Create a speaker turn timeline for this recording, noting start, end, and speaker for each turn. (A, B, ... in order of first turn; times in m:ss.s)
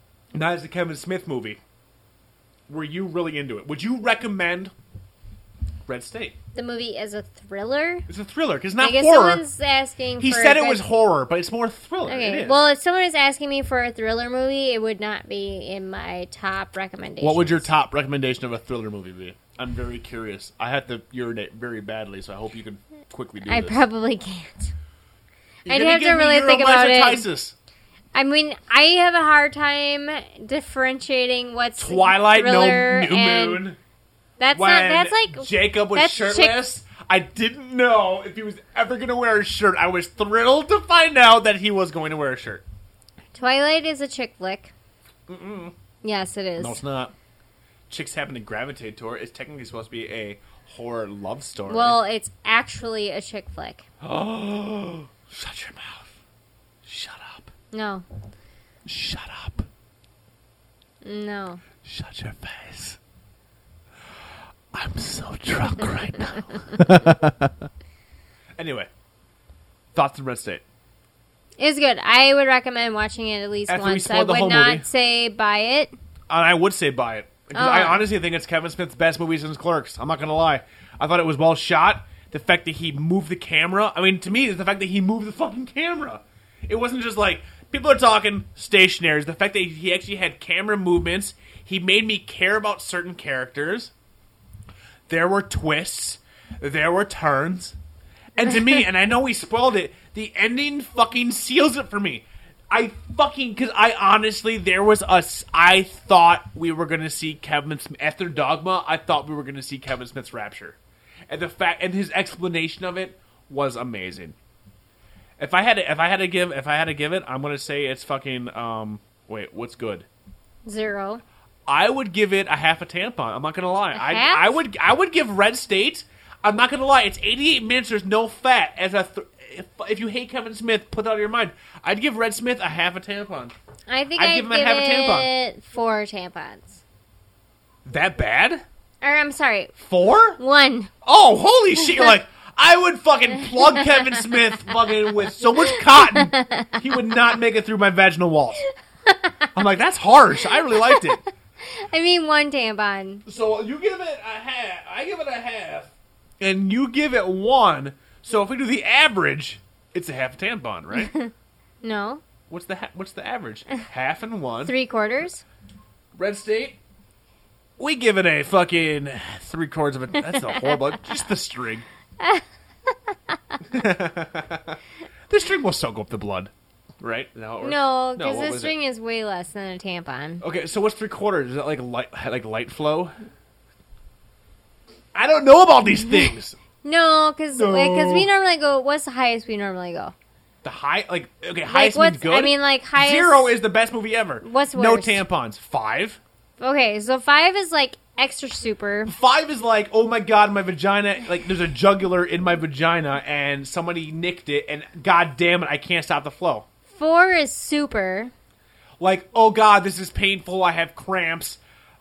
0:00.3-0:01.6 A
0:02.7-0:04.7 A
0:05.8-0:06.4 A
0:06.5-0:08.1 B
0:08.1-0:09.4 A
0:08.8-0:10.8 B
0:10.2-0:12.6 A
0:12.0-0:17.7 B
0:17.2-0:23.8 A
0:23.4-0:24.7 B
0:25.6-0:27.2 B
0:25.6-0:27.5 A
0:28.1-0:33.6 B
0:31.8-0:33.8 A
0:34.4-0:36.6 B
0:34.5-0:42.6 A
0:43.3-0:44.7 B
0:45.3-0:45.7 A
0:46.0-0:46.8 B
0:46.6-0:47.1 A
0:47.9-0:52.0 A
0:51.7-0:53.8 B
0:54.0-0:56.1 A
0:56.8-0:57.5 A
0:57.7-0:58.0 B
0:58.8-0:59.7 A
1:01.0-1:01.6 B
1:01.8-1:03.0 A
1:04.7-1:07.6 A
1:08.6-1:08.9 A
1:09.9-1:10.6 A
1:11.6-1:15.9 B
1:13.7-1:14.8 A
1:16.3-1:33.9 A
1:17.5-1:18.0 B
1:35.1-1:37.8 A
1:38.4-1:50.8 A
1:51.3-1:54.3 A
1:55.4-2:00.0 A
2:00.6-2:01.2 B
2:01.7-2:13.5 A
2:03.9-2:04.5 B
2:13.9-2:16.8 B
2:14.2-2:15.3 A
2:17.8-2:18.6 A
2:19.0-2:19.7 B
2:19.8-2:20.4 A
2:20.4-2:20.9 B
2:21.0-2:28.6 A
2:25.9-2:26.7 B
2:29.1-2:29.5 B
2:29.5-2:31.2 A
2:31.6-2:33.2 B
2:33.2-2:41.1 A
2:40.9-2:41.3 B
2:41.8-2:42.2 B
2:42.5-2:44.7 A
2:44.6-2:45.4 B
2:46.1-2:46.8 A
2:47.8-2:51.8 A
2:53.7-2:54.8 A
2:55.3-2:58.7 A
2:57.6-3:00.4 B
3:00.4-3:03.1 A
3:05.1-3:06.6 A
3:06.8-3:10.1 B
3:07.5-3:08.3 A
3:10.6-3:16.2 A
3:11.7-3:13.5 B
3:14.4-3:15.2 B
3:16.6-3:19.1 B
3:19.0-3:26.6 A
3:27.0-3:28.3 B
3:29.0-3:31.6 A